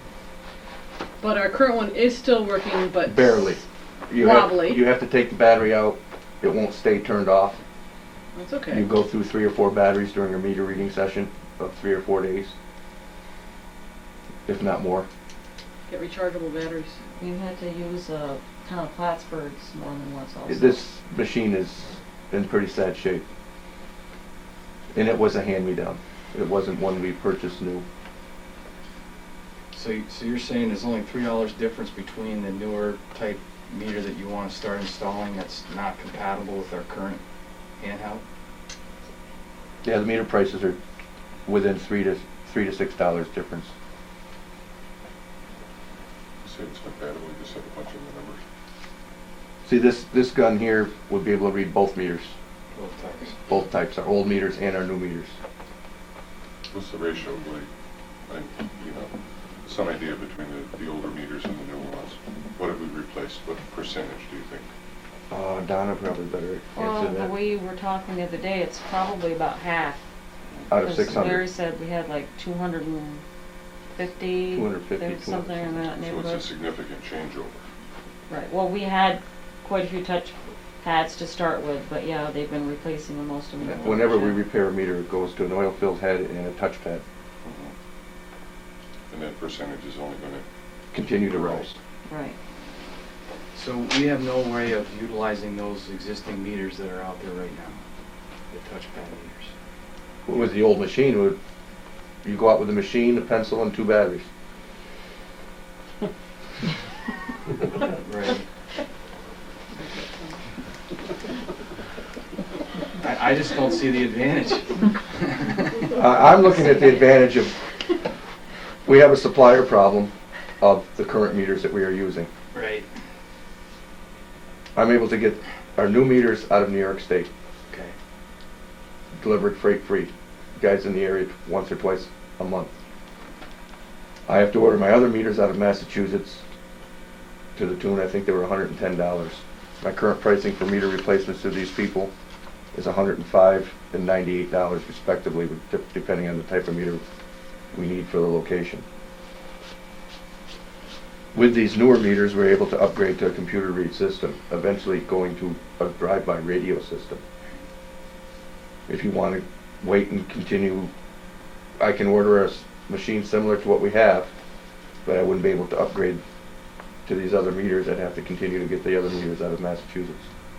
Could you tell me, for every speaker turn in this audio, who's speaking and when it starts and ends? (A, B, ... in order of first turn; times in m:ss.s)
0:01.2-0:03.6 A
0:03.0-0:07.6 B
0:04.1-0:04.8 A
0:08.3-0:08.8 A
0:08.7-0:12.5 B
0:14.5-0:15.1 B
0:15.9-0:17.0 A
0:17.2-0:20.8 C
0:20.5-0:23.2 B
0:24.9-0:27.8 B
0:29.7-0:37.2 D
0:37.8-0:38.2 D
0:39.8-0:40.8 B
0:41.5-0:43.7 B
0:46.4-0:48.4 E
0:49.6-0:52.3 B
0:52.7-0:53.4 D
0:53.5-0:55.3 B
0:56.7-0:57.7 E
0:58.3-0:59.1 E
0:59.6-1:04.7 E
1:05.3-1:07.3 B
1:06.8-1:10.0 C
1:10.7-1:11.5 B
1:10.7-1:13.2 C
1:13.9-1:16.5 C
1:14.5-1:15.8 B
1:16.0-1:17.6 E
1:18.3-1:24.5 C
1:23.7-1:24.3 E
1:23.7-1:27.0 B
1:27.4-1:27.7 E
1:29.1-1:30.4 E
1:30.9-1:31.8 B
1:31.1-1:31.7 E
1:32.0-1:32.4 C
1:33.5-1:37.8 D
1:38.5-1:39.5 D
1:40.3-1:41.4 B
1:42.2-1:44.3 B
1:47.6-1:48.4 D
1:53.0-1:56.0 D
1:55.9-1:57.5 B
1:58.8-2:02.3 B
2:02.5-2:02.8 D
2:04.8-2:07.3 B
2:07.7-2:07.9 D
2:09.2-2:12.7 B
2:14.3-2:16.4 B
2:17.6-2:22.1 B
2:22.7-2:27.0 B
2:27.7-2:28.8 B
2:31.3-2:37.2 B
2:38.9-2:40.9 B
2:41.8-2:44.3 B
2:45.0-2:46.2 B
2:47.0-2:50.3 B